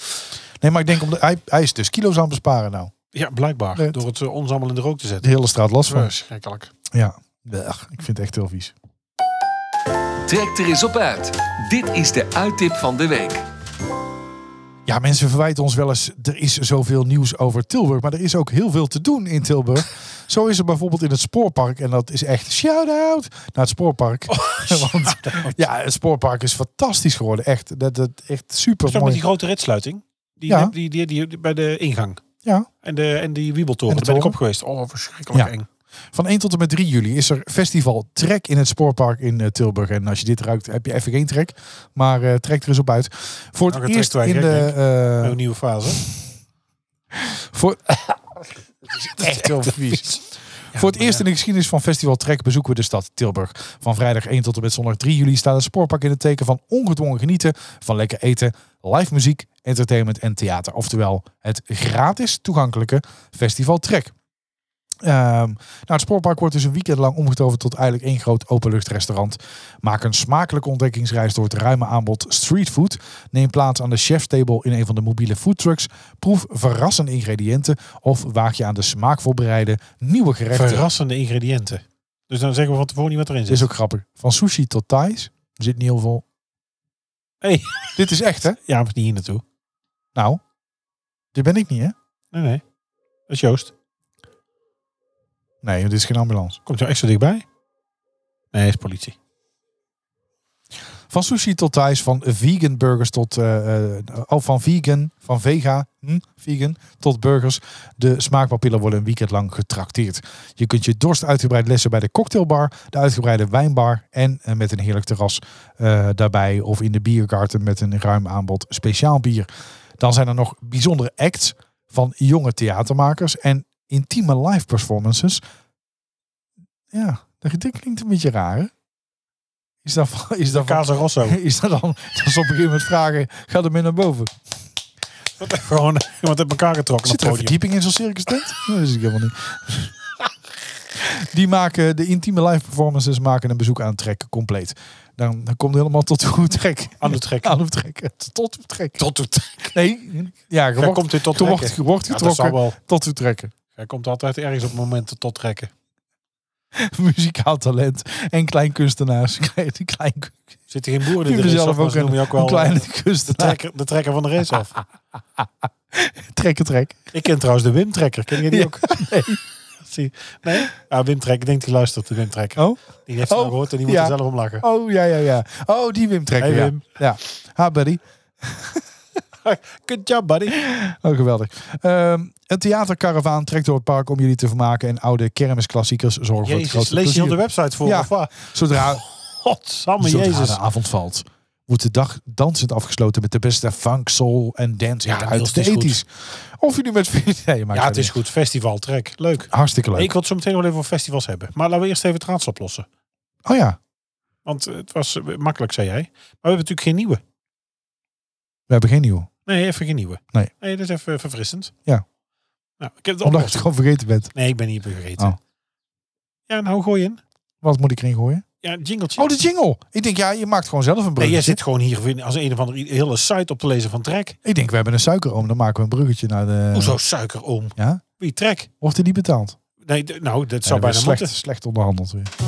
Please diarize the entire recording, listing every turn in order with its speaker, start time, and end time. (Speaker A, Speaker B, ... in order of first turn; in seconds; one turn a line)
Speaker A: 0.6-2.9
Speaker B: 3.1-6.7
Speaker A: 5.2-6.1
Speaker A: 6.9-8.7
Speaker C: 10.3-13.4
Speaker A: 14.9-29.2
Speaker B: 24.3-25.7
Speaker B: 28.9-32.2
Speaker A: 30.5-30.7
Speaker A: 32.4-32.7
Speaker B: 32.8-35.7
Speaker A: 33.9-34.4
Speaker A: 36.1-45.4
Speaker B: 43.7-46.0
Speaker A: 47.1-48.4
Speaker A: 48.9-50.2
Speaker B: 49.1-51.2
Speaker A: 50.7-64.1
Speaker A: 65.0-80.9
Speaker B: 80.5-83.7
Speaker A: 83.5-86.2
Speaker B: 87.4-89.4
Speaker A: 88.0-88.6
Speaker A: 90.2-90.4
Speaker A: 91.3-92.0
Speaker B: 92.3-92.6
Speaker B: 93.3-93.7
Speaker A: 95.6-96.6
Speaker B: 96.7-97.5
Speaker B: 98.5-99.2
Speaker A: 101.1-119.5
Speaker A: 120.0-125.4
Speaker A: 126.9-128.7
Speaker A: 129.8-134.3
Speaker B: 130.5-131.4
Speaker B: 135.4-137.6
Speaker A: 137.1-139.9
Speaker A: 140.9-149.0
Speaker B: 147.0-147.6
Speaker B: 149.0-149.8
Speaker A: 149.7-153.5
Speaker B: 150.8-152.8
Speaker B: 153.7-155.7
Speaker A: 156.7-160.6
Speaker B: 160.7-164.8
Speaker A: 161.1-163.6
Speaker A: 165.4-167.1
Speaker B: 167.1-169.1
Speaker A: 168.4-169.4
Speaker B: 169.8-174.7
Speaker A: 172.6-178.8
Speaker B: 176.4-177.0
Speaker B: 179.4-180.6
Speaker A: 180.6-189.0
Speaker B: 186.4-190.6
Speaker A: 190.0-198.1
Speaker B: 195.1-196.0
Speaker B: 197.7-202.9
Speaker A: 199.5-200.1
Speaker A: 203.5-203.8
Speaker B: 204.4-207.2
Speaker A: 208.7-209.3
Speaker B: 209.5-211.7
Speaker B: 212.8-213.7
Speaker A: 213.2-214.3
Speaker B: 214.3-215.4
Speaker B: 216.5-217.2
Speaker A: 217.6-218.4
Speaker B: 218.6-219.3
Speaker A: 219.2-221.6
Speaker B: 221.2-224.4
Speaker A: 224.4-227.0
Speaker B: 226.7-228.7
Speaker A: 227.8-228.0
Speaker A: 228.8-229.6
Speaker B: 229.8-231.3
Speaker A: 230.6-232.3